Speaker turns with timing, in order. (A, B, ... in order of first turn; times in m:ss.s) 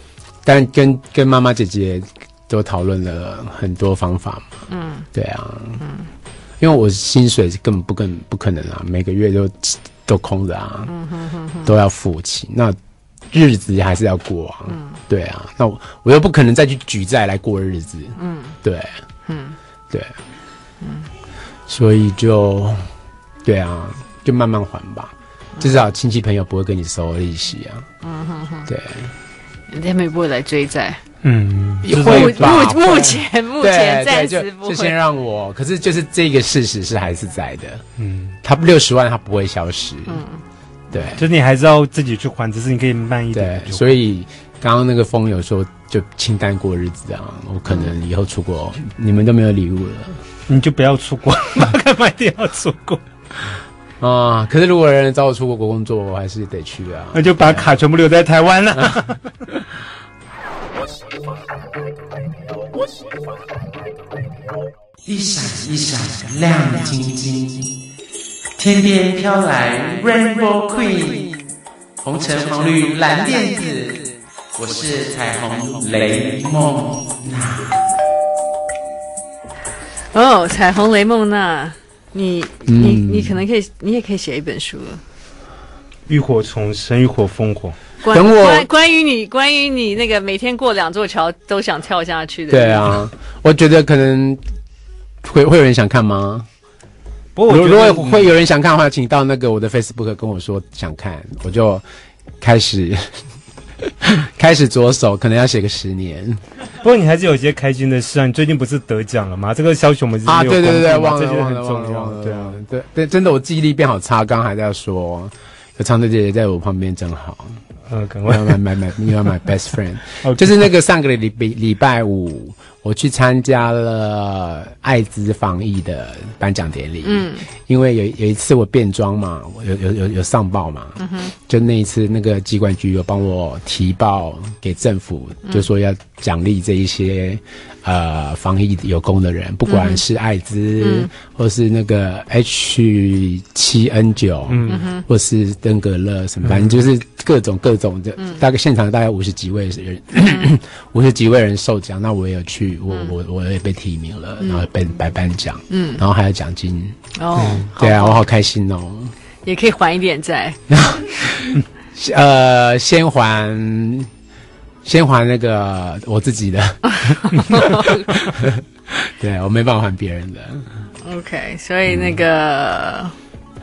0:00.4-0:04.6 A
0:04.7-0:05.1 B
0:05.1-0:05.8 A
0:05.8-0:06.1 B
0:06.6-0:10.9 A
0:10.9-0:11.7 B
0:11.6-0:12.8 A
0:13.3-0:18.9 A
0:14.7-0:15.0 B
0:18.2-0:18.6 B
0:19.3-0:19.6 B
0:20.8-0:21.1 B
0:21.7-0:22.8 A
0:23.4-0:27.9 A
0:28.0-0:28.7 B
0:28.7-0:29.1 A
0:29.7-0:31.0 B
0:31.2-0:32.7 C
0:31.8-0:37.8 A
0:32.0-0:35.0 B
0:38.0-0:38.4 C
0:38.4-0:40.2 A
0:40.1-0:40.4 B
0:40.9-0:41.2 A
0:41.2-0:43.9 C
0:43.3-0:50.2 A
0:50.5-0:53.0 C
0:54.0-0:57.7 A
0:57.1-0:59.3 C
1:05.0-1:07.8 D
1:08.6-1:11.4 D
1:12.0-1:17.8 D
1:20.1-1:25.0 B
1:22.7-1:23.4 A
1:26.1-1:27.8 C
1:28.0-1:33.0 B
1:28.1-1:28.7 A
1:32.5-1:34.4 A
1:35.2-1:36.5 A
1:37.4-1:38.3 C
1:37.5-1:41.8 A
1:42.4-1:43.2 A
1:43.8-1:46.4 A
1:46.8-1:52.6 C
1:50.2-1:57.6 A
1:57.9-1:58.6 C
1:58.3-2:39.1 A
2:00.2-2:00.6 C
2:07.0-2:07.5 B
2:11.0-2:11.3 B
2:19.7-2:20.0 B
2:20.8-2:21.1 B
2:24.5-2:24.8 C
2:24.7-2:25.0 B
2:26.5-2:26.7 C
2:34.4-2:34.7 B
2:35.7-2:36.0 B
2:37.2-2:38.2 B
2:37.4-2:37.7 C
2:39.4-2:40.6 B
2:40.7-2:44.1 A
2:44.8-2:50.7 A
2:46.9-2:48.2 B
2:51.0-2:53.1 B
2:51.9-2:52.2 A